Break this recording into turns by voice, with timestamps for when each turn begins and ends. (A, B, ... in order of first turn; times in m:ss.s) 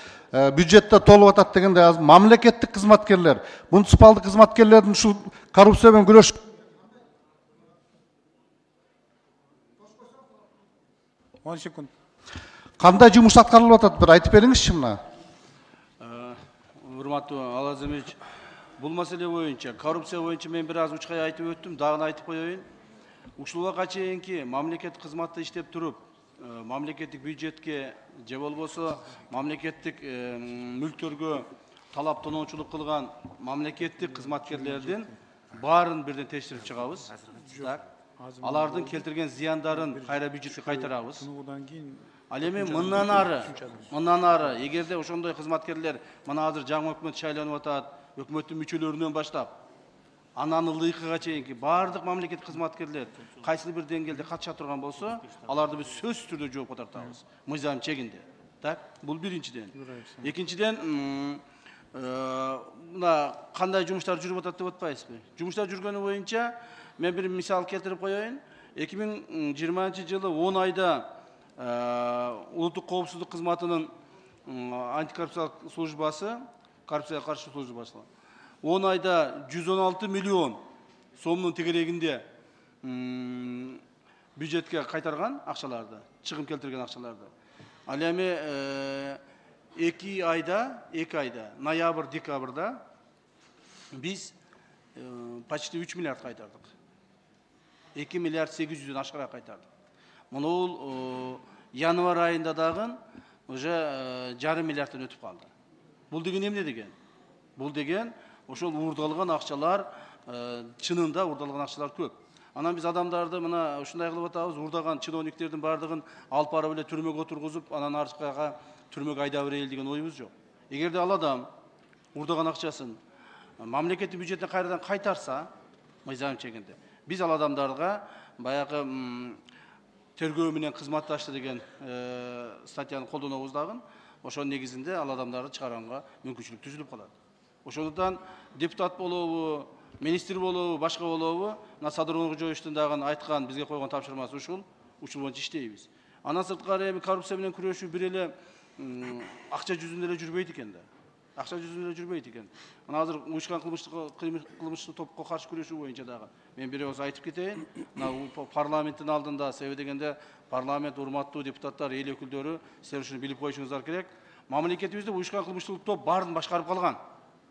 0:00.3-0:06.4 A
0:11.4-0:11.9 B
0:12.8-0:15.0 A
0:16.0-0:18.2 C
0:18.8-0:22.6 C
0:23.4-0:37.8 C
0:34.0-0:35.1 B
0:37.3-0:39.1 B
0:38.4-0:41.3 C
0:39.7-0:44.0 B
0:42.3-0:49.5 C
0:50.4-1:01.4 C
0:59.8-1:00.2 B
1:01.9-1:13.9 C
1:14.5-1:18.1 C
1:18.6-1:20.6 C
1:21.2-1:22.2 C
1:22.8-1:23.8 C
1:24.4-1:27.3 C
1:27.9-1:29.2 C
1:29.8-1:32.8 C
1:33.9-1:34.3 C
1:34.9-1:36.7 C
1:37.9-1:39.7 C
1:40.3-1:45.5 C
1:46.1-1:46.9 C
1:47.6-2:01.5 C
2:02.1-2:03.0 C
2:03.6-2:05.5 C
2:06.0-2:09.4 C
2:10.2-2:30.8 C
2:31.4-2:47.0 C